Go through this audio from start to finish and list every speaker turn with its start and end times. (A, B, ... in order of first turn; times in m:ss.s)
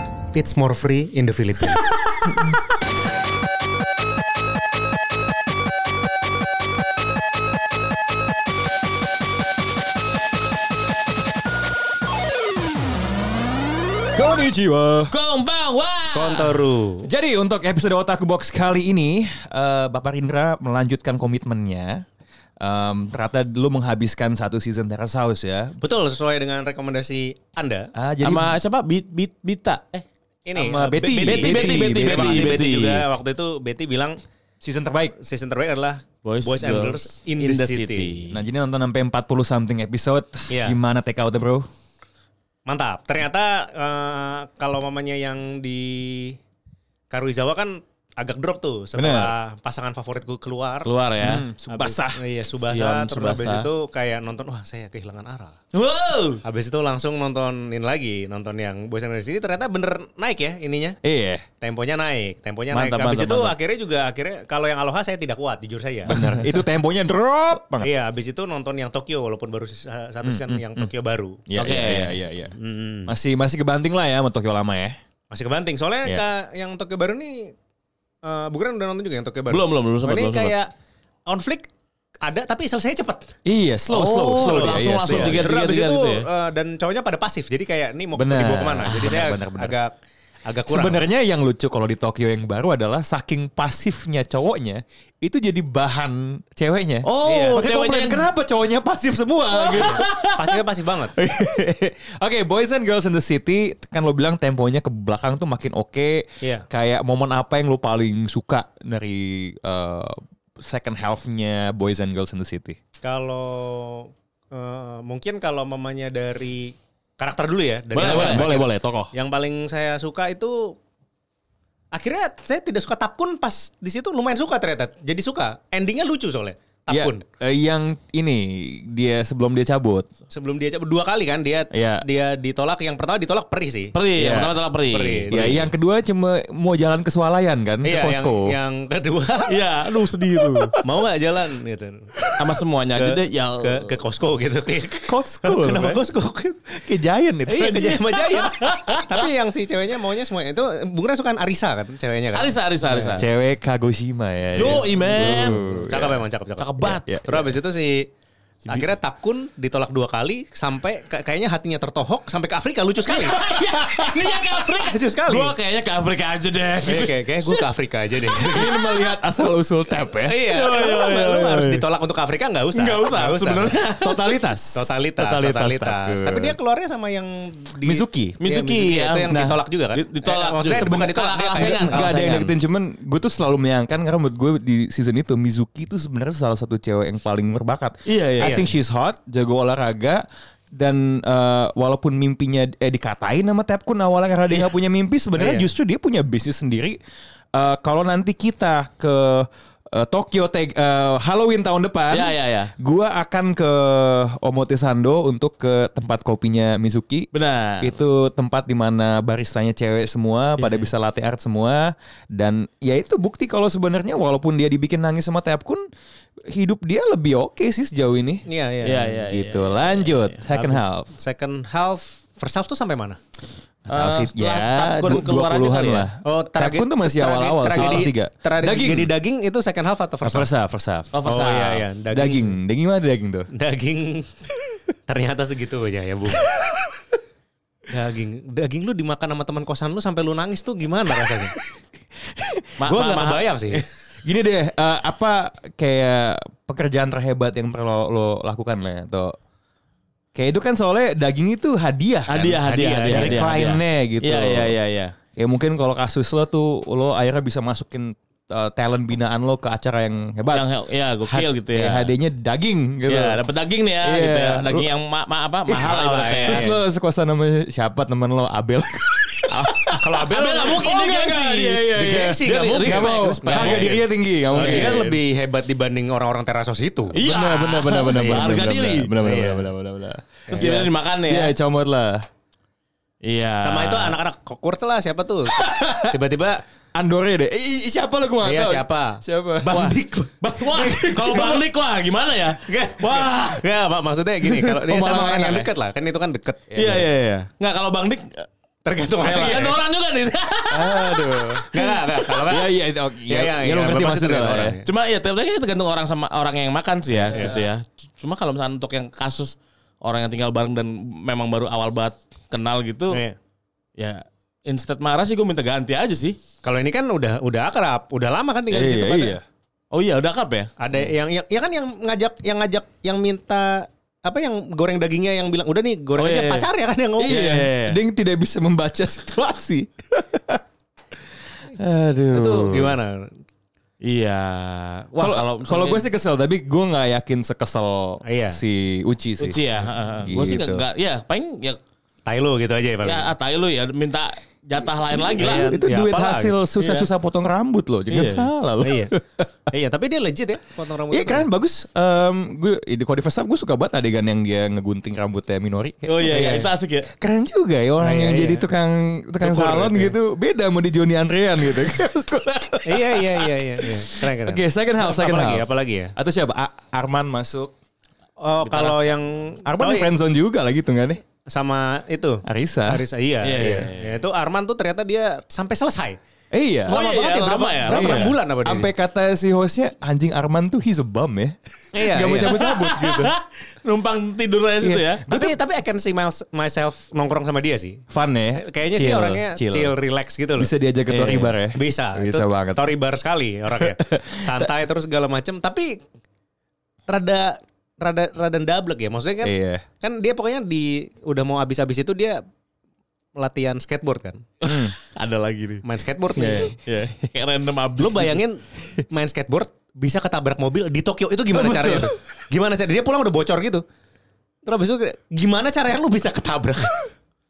0:00.3-0:02.2 A
0:14.1-0:15.1 B
0:15.1-0:16.6 C
0:16.1-0:17.1 A
0:17.0-0:22.0 B
0:22.6-0:25.8 B
0:25.8-0:27.9 A
0:28.0-0:28.6 B
0:28.2-0:30.0 C
0:30.5-0:34.2 A
0:30.5-0:32.6 B
0:31.0-0:33.1 C
0:34.6-0:35.2 B
0:35.2-0:38.2 A
0:36.2-0:38.4 C
0:38.3-0:41.7 B
0:40.5-0:40.8 A
0:42.7-0:46.4 A
0:47.1-0:50.9 A
0:49.0-0:49.4 B
0:50.8-0:51.5 C
0:51.2-0:52.2 B
0:51.7-0:55.6 A
0:52.6-0:53.7 C
0:55.7-0:56.4 C
0:56.4-1:01.0 A
1:01.0-1:01.4 B
1:01.6-1:06.3 A
1:02.7-1:03.6 C
1:06.1-1:07.9 B
1:07.8-1:11.4 A
1:10.2-1:10.9 B
1:11.5-1:12.5 B
1:11.6-1:12.2 C
1:12.6-1:13.1 A
1:13.1-1:15.0 B
1:15.3-1:17.5 A
1:18.2-1:20.7 A
1:19.5-1:20.6 C
1:21.3-1:21.7 A
1:22.2-1:23.3 A
1:23.4-1:25.5 B
1:23.9-1:26.3 C
1:24.2-1:29.9 A
1:28.2-1:29.8 B
1:30.4-1:31.0 A
1:30.7-1:40.5 B
1:37.0-1:38.3 C
1:37.2-1:37.6 A
1:39.6-1:41.2 A
1:39.7-1:40.0 C
1:41.2-1:52.8 B
1:46.4-1:46.7 A
1:53.0-2:00.8 A
1:57.9-1:58.5 C
1:58.0-1:59.1 B
2:01.9-2:07.2 A
2:06.9-2:10.1 B
2:10.3-2:14.0 A
2:11.7-2:12.0 B
2:13.9-2:15.6 C
2:14.2-2:14.5 B
2:14.9-2:15.7 A
2:15.3-2:18.6 B
2:17.8-2:19.6 A
2:19.5-2:20.8 C
2:20.5-2:20.8 B
2:20.8-2:22.3 A
2:22.4-2:24.0 C
2:22.9-2:26.7 A
2:25.1-2:26.0 B
2:26.7-2:28.8 B
2:27.5-2:33.3 A
2:32.3-2:33.3 C
2:33.1-2:36.3 B
2:34.6-2:35.7 C
2:35.2-2:38.1 A
2:36.6-2:37.0 C
2:36.9-2:37.6 B
2:38.7-2:38.9 C
2:38.7-2:45.6 A
2:43.1-2:47.7 C
2:46.8-2:48.8 A
2:48.4-2:50.5 B
2:50.2-2:53.8 A
2:50.5-2:51.8 C
2:52.7-2:54.4 C
2:53.7-2:56.6 B
2:54.7-3:02.2 A
2:57.8-2:58.4 B
2:58.4-3:02.5 C
3:00.7-3:01.0 B
3:01.6-3:17.0 B
3:08.1-3:08.6 C
3:08.4-3:08.7 A
3:15.4-3:15.7 A
3:17.5-3:35.8 B
3:22.1-3:22.7 C
3:27.3-3:27.9 C
3:30.6-3:30.9 C
3:36.5-3:38.5 B
3:38.5-3:39.1 A
3:38.8-3:40.4 C
3:39.1-3:41.1 B
3:40.5-3:43.2 A
3:43.9-3:46.1 C
3:43.9-3:49.1 B
3:46.2-3:50.5 A
3:47.7-3:48.1 C
3:50.2-3:51.1 B
3:51.1-3:51.9 C
3:51.2-3:52.6 A
3:52.1-3:53.5 B
3:53.5-3:54.3 A
3:55.1-3:56.6 A
3:57.9-4:01.6 A
4:02.4-4:02.7 B
4:02.8-4:03.8 C
4:02.8-4:03.8 A
4:04.2-4:09.4 B
4:10.4-4:14.8 B
4:12.3-4:15.2 C
4:13.0-4:13.4 A
4:15.4-4:20.7 B
4:20.5-4:22.1 C
4:21.3-4:23.4 B
4:23.1-4:26.7 C
4:24.0-4:24.9 B
4:25.7-4:30.0 B
4:25.8-4:26.8 A
4:30.0-4:37.2 A
4:30.3-4:34.0 C
4:30.7-4:35.1 B
4:34.5-4:35.2 C
4:37.1-4:39.1 C
4:37.2-4:42.3 B
4:38.1-4:38.4 A
4:39.2-4:39.7 A
4:40.5-4:40.8 A
4:40.5-4:41.5 C
4:43.2-4:44.2 C
4:43.6-4:46.6 A
4:45.5-4:46.1 B
4:47.0-4:49.8 B
4:48.4-4:51.6 A
4:49.7-4:53.6 C
4:52.7-4:56.7 A
4:54.5-4:55.6 C
4:55.0-4:55.6 B
4:56.7-4:57.1 B
4:56.8-4:58.5 C
4:58.8-4:59.8 A
4:59.2-5:01.8 C
5:00.7-5:01.7 B
5:01.7-5:02.7 A
5:02.4-5:04.8 B
5:03.3-5:04.9 A
5:04.8-5:13.2 C
5:07.3-5:07.7 A
5:13.1-5:13.4 A
5:14.0-5:16.4 C
5:16.6-5:19.4 A
5:18.7-5:19.4 B
5:19.9-5:20.7 C
5:20.8-5:27.4 A
5:26.2-5:26.7 C
5:27.2-5:28.0 C
5:27.2-5:30.6 B
5:31.7-5:33.0 B
5:32.3-5:33.3 A
5:34.0-5:36.1 C
5:35.2-5:39.6 B
5:38.2-5:38.6 A
5:39.4-5:41.8 C
5:40.2-5:40.8 B
5:42.2-5:43.3 A
5:43.0-5:45.9 C
5:45.2-5:47.1 A
5:45.3-5:49.7 B
5:48.1-5:48.5 C
5:48.8-5:49.1 A
5:49.7-5:51.5 A
5:51.1-6:07.7 B
5:56.1-5:57.1 C
5:56.3-5:56.7 A
5:58.0-5:58.6 A
5:59.4-6:00.1 A
6:02.8-6:06.1 A
6:08.4-6:10.1 A
6:08.6-6:09.2 C
6:09.6-6:11.2 B
6:11.5-6:16.2 A
6:12.4-6:13.0 B
6:13.4-6:14.2 C
6:16.5-6:17.0 B
6:16.9-6:18.9 A
6:16.9-6:18.4 C
6:17.9-6:23.3 B
6:21.9-6:22.6 A
6:22.2-6:25.3 C
6:24.8-6:25.6 B
6:25.3-6:28.0 A
6:28.1-6:30.0 B
6:28.6-6:36.0 A
6:30.6-6:32.9 B
6:31.1-6:31.5 C
6:33.8-6:34.7 B
6:37.1-6:42.4 A
6:39.4-6:39.8 B
6:43.4-6:44.5 A
6:44.6-6:44.9 B
6:44.6-6:45.8 C
6:45.8-6:46.8 A
6:46.4-6:48.4 C
6:48.0-6:53.8 A
6:51.5-6:52.1 B
6:54.6-6:57.1 A